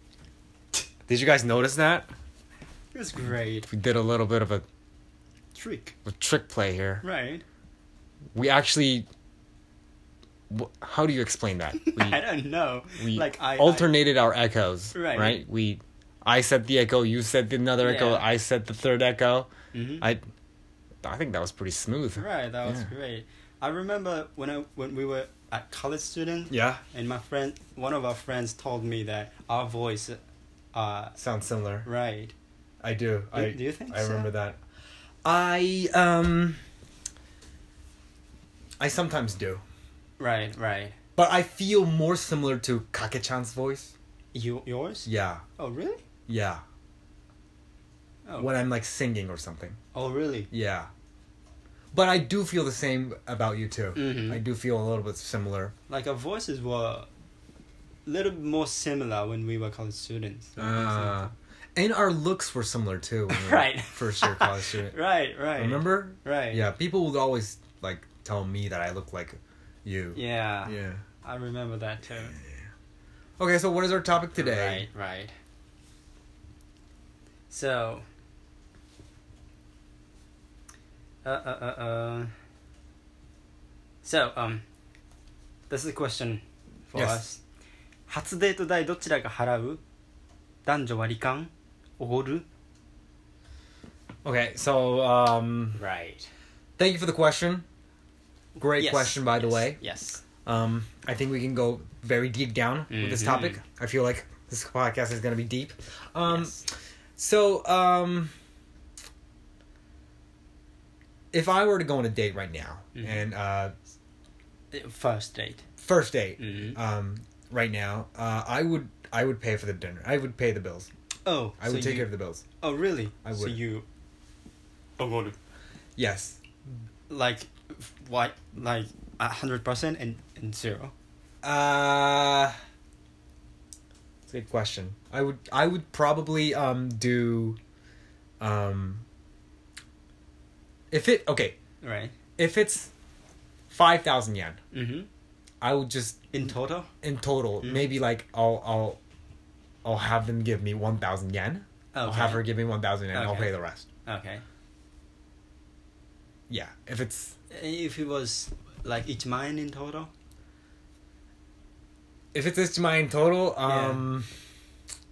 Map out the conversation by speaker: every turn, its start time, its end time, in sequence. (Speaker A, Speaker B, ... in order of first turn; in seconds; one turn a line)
Speaker A: 1.1-2.1
Speaker B: 2.9-3.7
Speaker A: 3.7-4.6
Speaker B: 5.5-5.9
Speaker A: 6.0-7.0
Speaker B: 7.0-7.4
Speaker A: 8.3-9.1
Speaker A: 10.5-12.2
Speaker B: 11.8-14.0
Speaker A: 13.0-19.5
Speaker B: 14.9-15.4
Speaker B: 17.8-18.3
Speaker B: 19.7-20.1
Speaker A: 21.0-22.9
Speaker B: 22.2-30.2
Speaker A: 26.5-26.8
Speaker B: 30.7-31.1
Speaker A: 31.2-31.9
Speaker B: 31.8-32.3
Speaker A: 32.8-34.6
Speaker B: 33.3-34.3
Speaker A: 35.2-36.6
Speaker A: 38.8-39.6
Speaker B: 40.2-41.0
Speaker A: 41.1-43.9
Speaker B: 44.3-46.0
Speaker A: 45.0-45.4
Speaker A: 46.3-46.6
Speaker B: 48.2-48.5
Speaker A: 48.4-49.8
Speaker B: 49.9-50.5
Speaker A: 50.5-50.9
Speaker A: 51.9-55.7
Speaker B: 53.9-54.4
Speaker B: 55.9-57.1
Speaker B: 58.0-61.3
Speaker A: 60.6-64.9
Speaker B: 63.3-66.7
Speaker A: 65.5-71.0
Speaker B: 70.1-72.3
Speaker A: 72.3-72.6
Speaker A: 73.4-74.8
Speaker B: 74.3-75.3
Speaker B: 77.5-78.0
Speaker B: 81.2-82.3
Speaker B: 84.0-84.6
Speaker B: 85.7-87.4
Speaker A: 86.9-87.2
Speaker B: 88.1-89.8
Speaker B: 90.7-92.4
Speaker A: 94.2-95.8
Speaker B: 95.7-96.3
Speaker A: 96.8-97.6
Speaker B: 98.6-100.2
Speaker A: 98.6-99.8
Speaker A: 100.4-106.6
Speaker B: 102.9-103.6
Speaker B: 106.3-106.6
Speaker A: 107.2-108.3
Speaker A: 111.3-113.7
Speaker B: 112.9-113.2
Speaker B: 114.7-115.6
Speaker A: 115.8-120.9
Speaker B: 116.4-116.8
Speaker B: 121.2-122.1
Speaker A: 121.6-122.4
Speaker B: 122.6-123.8
Speaker A: 123.2-123.6
Speaker B: 125.0-125.4
Speaker A: 126.0-126.4
Speaker B: 127.1-130.9
Speaker A: 131.4-132.5
Speaker A: 134.3-137.6
Speaker A: 138.4-139.0
Speaker A: 140.9-141.6
Speaker B: 141.8-142.1
Speaker A: 142.4-142.9
Speaker A: 143.7-144.6
Speaker B: 144.7-145.1
Speaker A: 145.6-146.2
Speaker B: 146.3-146.9
Speaker A: 147.0-149.0
Speaker B: 147.6-147.9
Speaker A: 149.8-153.8
Speaker B: 151.9-152.5
Speaker B: 153.1-153.5
Speaker B: 154.0-154.4
Speaker A: 156.5-157.3
Speaker B: 157.5-160.1
Speaker A: 162.3-164.3
Speaker B: 163.6-164.1